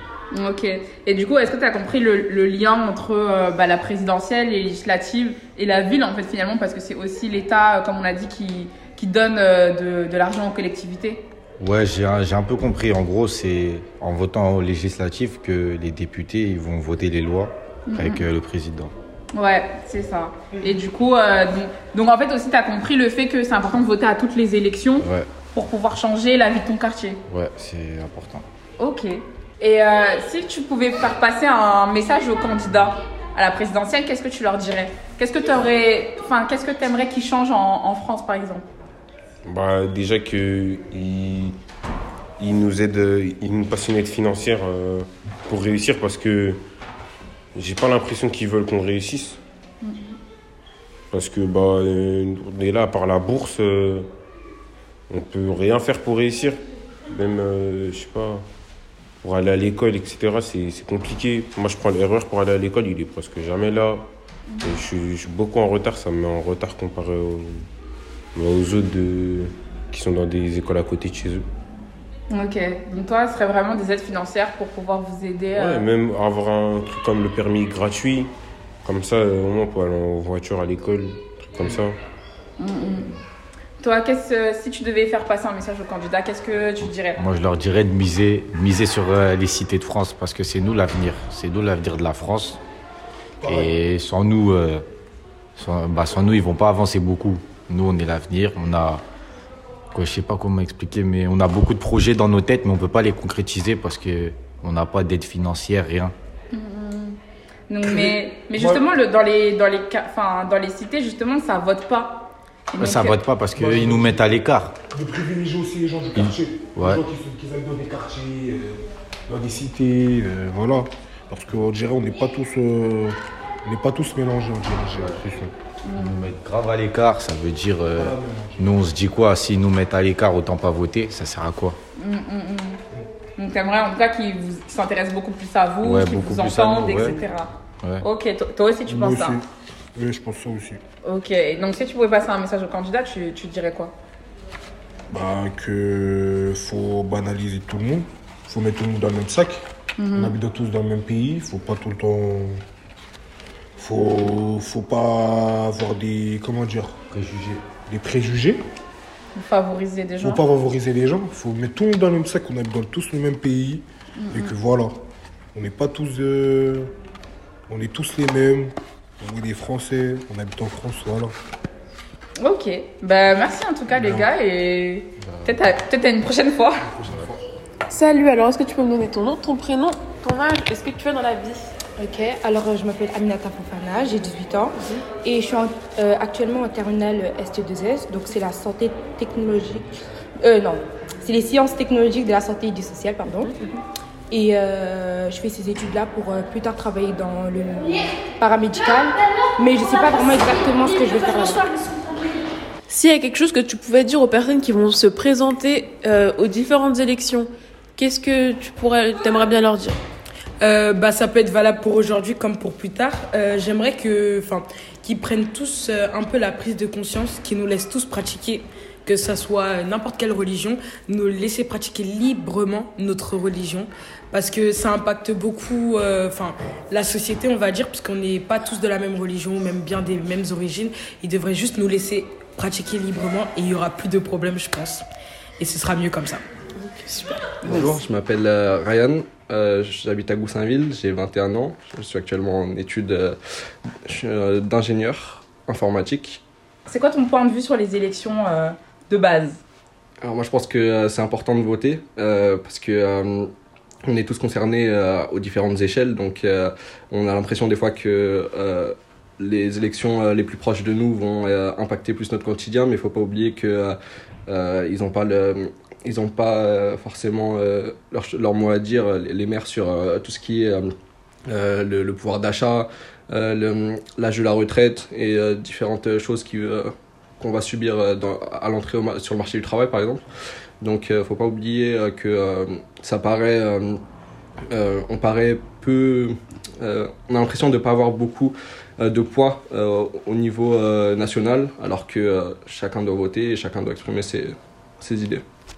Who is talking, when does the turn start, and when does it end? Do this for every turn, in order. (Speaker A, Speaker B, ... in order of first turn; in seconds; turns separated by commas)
Speaker A: 0.3-11.2, Speaker B: 11.6-18.9, Speaker A: 17.9-18.2, Speaker A: 19.3-27.2, Speaker B: 25.0-25.3, Speaker B: 27.3-28.4, Speaker A: 28.8-38.6, Speaker C: 39.5-41.5, Speaker C: 42.4-46.6, Speaker C: 47.5-49.4, Speaker A: 49.8-50.1, Speaker C: 51.1-54.1, Speaker C: 55.1-56.6, Speaker C: 57.1-58.4, Speaker C: 59.2-64.0, Speaker C: 64.6-67.6, Speaker C: 68.3-71.5, Speaker A: 72.3-75.9, Speaker C: 75.5-78.3, Speaker C: 78.8-82.0, Speaker A: 82.6-83.1, Speaker A: 83.8-87.2, Speaker B: 86.8-92.6, Speaker D: 93.4-93.7, Speaker B: 93.5-94.8, Speaker B: 95.6-99.0, Speaker B: 99.9-106.1, Speaker A: 106.5-107.2, Speaker A: 107.7-113.2, Speaker D: 107.8-108.8, Speaker B: 112.8-114.8, Speaker D: 113.5-114.3, Speaker D: 114.9-125.5, Speaker B: 116.2-117.0, Speaker B: 125.0-125.2, Speaker A: 125.8-126.2, Speaker B: 125.9-131.8, Speaker D: 128.0-128.6, Speaker A: 132.0-132.8, Speaker A: 133.4-139.4, Speaker B: 135.8-137.2, Speaker D: 138.9-139.4, Speaker D: 140.0-140.8, Speaker A: 141.0-143.9, Speaker D: 145.1-149.6, Speaker A: 150.0-150.3, Speaker D: 150.1-152.6, Speaker D: 153.8-157.0, Speaker B: 157.1-157.6, Speaker D: 157.9-158.6, Speaker A: 159.3-160.4, Speaker D: 160.2-165.0, Speaker A: 164.2-164.5, Speaker D: 165.5-166.9, Speaker D: 167.7-171.3, Speaker A: 172.4-176.9, Speaker D: 173.9-174.3, Speaker D: 176.9-177.4, Speaker E: 177.9-181.6, Speaker F: 182.0-193.5, Speaker F: 194.3-201.7, Speaker E: 202.9-210.0, Speaker G: 210.6-235.0, Speaker G: 235.6-236.4, Speaker H: 237.6-243.4, Speaker H: 244.1-246.4, Speaker A: 246.8-249.6, Speaker H: 250.2-253.5, Speaker H: 254.1-270.9, Speaker H: 271.5-280.2, Speaker H: 280.8-284.0, Speaker H: 284.7-295.4